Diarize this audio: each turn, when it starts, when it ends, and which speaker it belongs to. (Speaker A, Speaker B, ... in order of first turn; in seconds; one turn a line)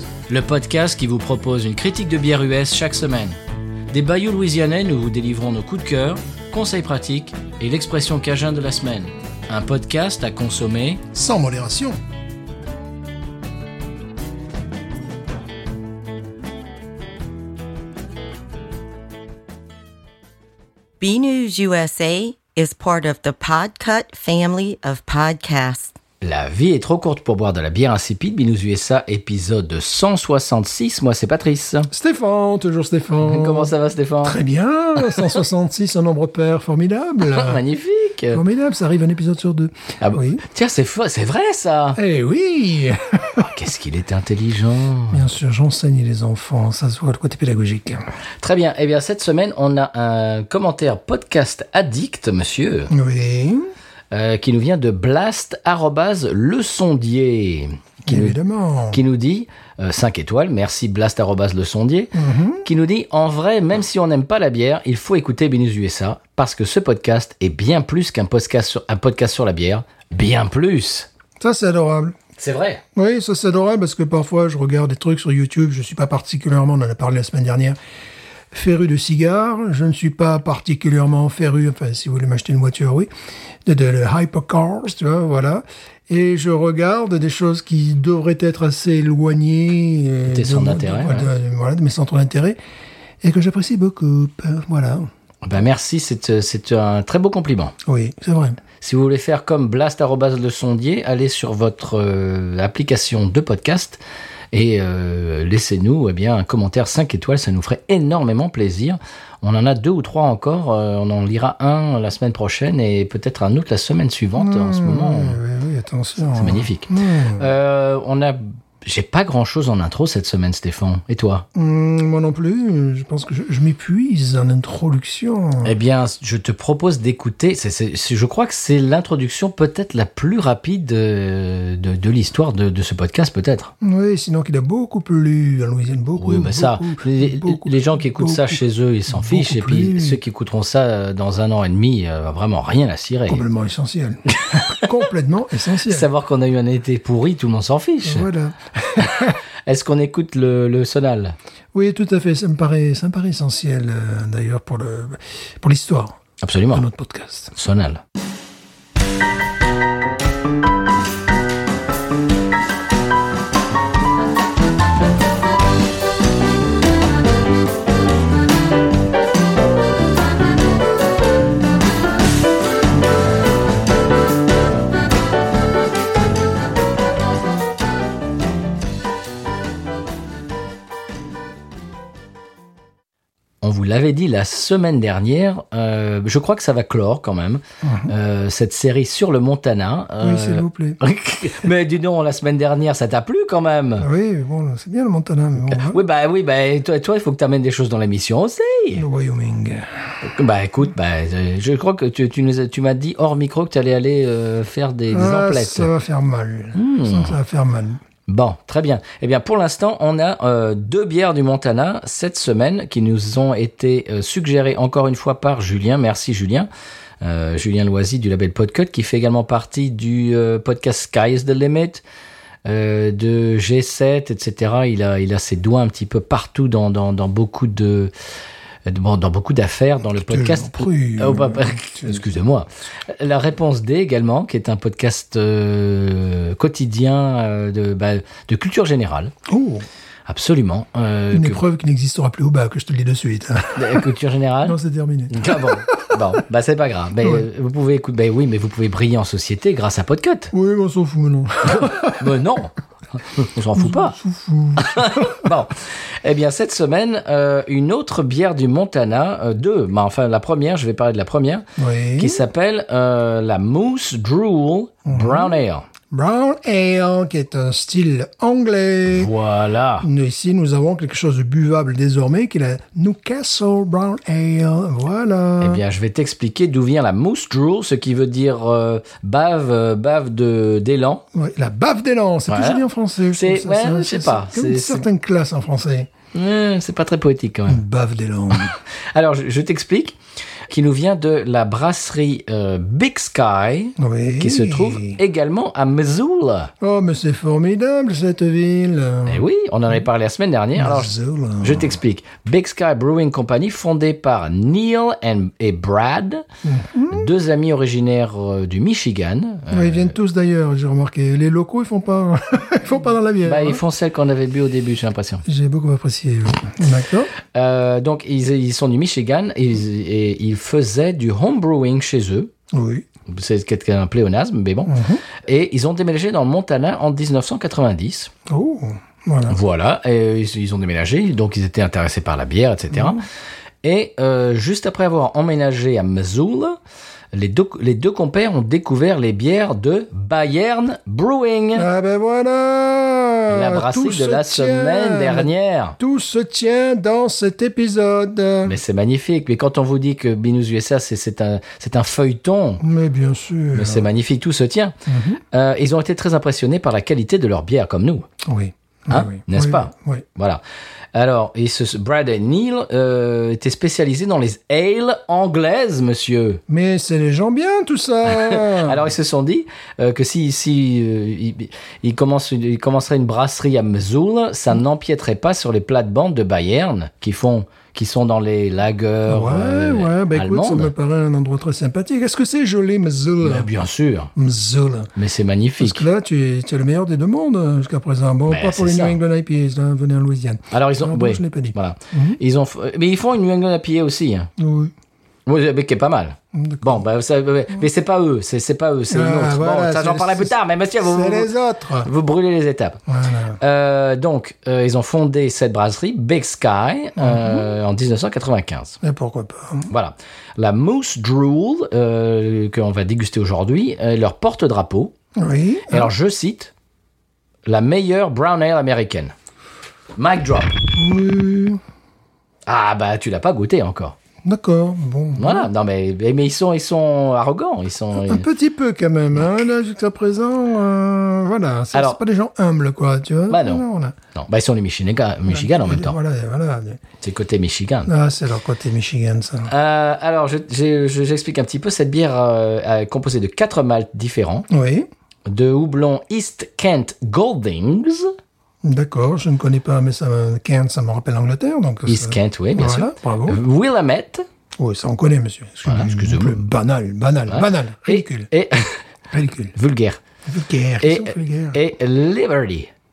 Speaker A: 0.3-3.4
Speaker A: 3.9-11.0
Speaker B: 11.1-12.0
Speaker C: 21.0-25.9
Speaker A: 26.2-31.9
Speaker B: 31.9-33.7
Speaker A: 33.2-34.4
Speaker B: 34.2-37.6
Speaker A: 37.2-38.4
Speaker B: 38.3-40.4
Speaker A: 40.0-42.0
Speaker B: 42.0-43.5
Speaker A: 43.4-45.3
Speaker B: 45.1-48.1
Speaker A: 48.4-52.9
Speaker B: 52.9-53.7
Speaker A: 54.1-58.4
Speaker B: 58.0-59.0
Speaker A: 58.9-71.1
Speaker B: 62.1-62.6
Speaker B: 71.4-72.2
Speaker A: 72.4-72.8
Speaker B: 73.0-77.8
Speaker B: 78.5-83.1
Speaker B: 83.7-92.6
Speaker A: 90.3-91.3
Speaker B: 93.2-95.1
Speaker A: 95.4-97.8
Speaker B: 97.8-98.6
Speaker A: 98.8-104.0
Speaker A: 104.5-115.4
Speaker B: 114.4-117.5
Speaker A: 116.3-121.5
Speaker B: 121.5-125.7
Speaker A: 125.6-133.7
Speaker B: 133.8-140.2
Speaker A: 136.2-143.5
Speaker B: 143.3-146.1
Speaker A: 144.5-144.8
Speaker A: 145.9-148.3
Speaker B: 148.0-149.4
Speaker A: 149.0-151.4
Speaker B: 151.7-156.2
Speaker A: 156.4-156.9
Speaker B: 156.7-157.5
Speaker A: 157.6-158.0
Speaker A: 183.6-194.1
Speaker B: 187.8-188.1
Speaker B: 190.2-191.0
Speaker B: 194.0-196.0
Speaker A: 195.6-199.1
Speaker B: 198.9-200.0
Speaker A: 200.2-205.9
Speaker B: 205.1-208.0
Speaker A: 206.8-207.4
Speaker A: 208.3-216.7
Speaker A: 217.2-222.0
Speaker A: 222.7-228.1
Speaker A: 228.9-239.3
Speaker B: 230.2-232.3
Speaker B: 239.5-239.9
Speaker A: 240.3-241.6
Speaker B: 241.3-244.1
Speaker A: 243.8-244.8
Speaker B: 244.6-246.2
Speaker A: 245.3-250.5
Speaker B: 247.2-247.5
Speaker B: 250.5-252.3
Speaker A: 251.7-254.2
Speaker B: 253.8-255.5
Speaker A: 254.8-261.6
Speaker B: 261.8-262.4
Speaker A: 262.2-265.9
Speaker B: 265.1-265.5
Speaker B: 266.1-269.3
Speaker A: 269.1-270.1
Speaker B: 270.0-275.8
Speaker A: 275.6-281.2
Speaker B: 281.3-286.1
Speaker A: 282.5-285.1
Speaker A: 286.3-287.8
Speaker B: 287.7-288.7
Speaker A: 288.5-290.2
Speaker A: 290.7-296.7
Speaker B: 294.0-295.2
Speaker B: 296.8-299.4
Speaker A: 299.3-306.4
Speaker B: 300.8-302.0
Speaker B: 306.6-307.3
Speaker A: 307.1-310.1
Speaker B: 309.7-313.8
Speaker A: 313.4-315.4
Speaker B: 315.4-317.3
Speaker A: 317.5-322.5
Speaker B: 322.7-323.1
Speaker A: 323.3-328.3
Speaker B: 324.9-325.2
Speaker B: 328.5-329.6
Speaker A: 329.5-333.2
Speaker B: 332.9-333.2
Speaker A: 333.8-336.8
Speaker A: 337.3-341.9
Speaker B: 341.8-348.8
Speaker A: 343.5-346.0
Speaker A: 348.6-352.8
Speaker B: 352.8-354.1
Speaker A: 353.7-355.0
Speaker B: 355.1-355.4
Speaker A: 355.5-358.3
Speaker B: 358.4-360.2
Speaker A: 359.1-360.6
Speaker A: 361.1-366.6
Speaker B: 366.7-369.1
Speaker A: 368.3-380.9
Speaker B: 379.3-383.7
Speaker A: 383.4-384.3
Speaker B: 384.4-385.1
Speaker A: 385.1-386.1
Speaker B: 385.8-392.4
Speaker A: 388.5-389.2
Speaker A: 390.7-394.5
Speaker B: 394.6-394.9
Speaker A: 395.5-403.0
Speaker B: 396.5-397.1
Speaker B: 399.1-402.1
Speaker B: 403.1-403.6
Speaker A: 403.6-409.0
Speaker B: 407.2-407.7
Speaker B: 409.0-409.9
Speaker A: 409.9-415.1
Speaker B: 415.4-416.1
Speaker A: 415.9-416.7
Speaker A: 417.7-419.3
Speaker A: 420.2-420.8
Speaker B: 420.9-421.8
Speaker A: 422.7-424.2
Speaker B: 424.4-425.7
Speaker A: 425.4-428.5
Speaker B: 428.1-434.2
Speaker A: 431.9-432.2
Speaker A: 433.5-433.8
Speaker A: 434.4-436.2
Speaker B: 435.5-437.0
Speaker A: 437.2-438.1
Speaker B: 438.1-439.7
Speaker A: 439.7-444.7
Speaker B: 444.7-445.1
Speaker A: 445.5-448.3
Speaker B: 448.8-453.6
Speaker A: 452.1-454.4
Speaker B: 454.8-458.5
Speaker A: 455.9-456.6
Speaker A: 457.5-459.0
Speaker B: 459.3-459.8
Speaker A: 459.7-460.2
Speaker B: 460.5-461.8
Speaker A: 461.0-462.9